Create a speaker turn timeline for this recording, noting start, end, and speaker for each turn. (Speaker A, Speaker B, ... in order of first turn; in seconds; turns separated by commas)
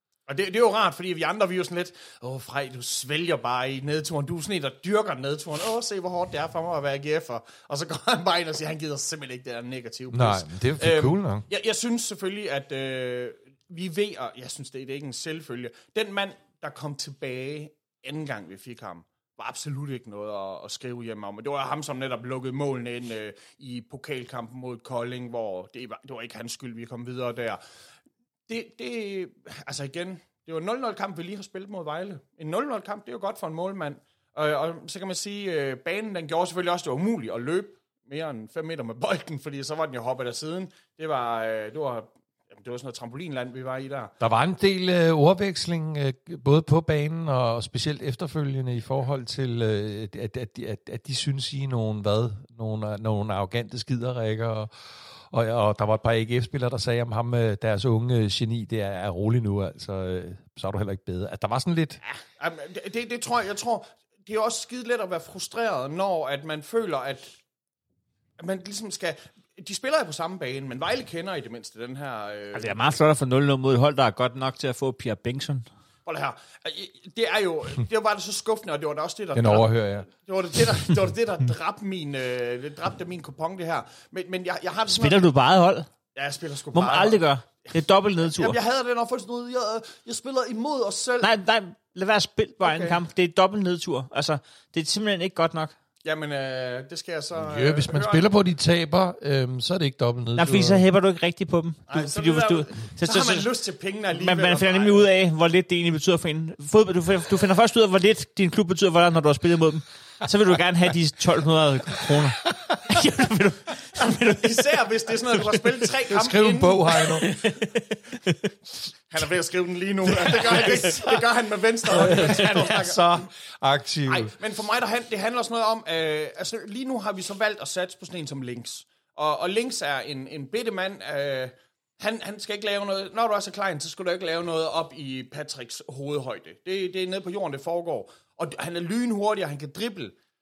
Speaker A: 0.3-27.6, Speaker B: 10.1-11.4, Speaker A: 28.5-44.1, Speaker B: 44.2-54.7, Speaker B: 55.3-62.0, Speaker A: 62.1-67.3, Speaker A: 68.4-72.7, Speaker C: 72.5-75.6, Speaker A: 76.0-85.2, Speaker B: 79.3-80.1, Speaker C: 85.0-85.9, Speaker A: 86.1-87.2, Speaker C: 86.7-88.5, Speaker A: 88.3-91.3, Speaker C: 91.2-95.7, Speaker A: 92.6-93.0, Speaker A: 96.0-98.3, Speaker B: 97.4-100.8, Speaker C: 100.3-103.5, Speaker A: 101.9-105.1, Speaker C: 104.1-114.6, Speaker A: 114.0-117.3, Speaker B: 116.0-117.3, Speaker C: 117.2-118.4, Speaker A: 119.1-123.2, Speaker B: 120.2-121.1, Speaker B: 121.9-124.3, Speaker C: 122.2-122.5, Speaker A: 124.0-140.1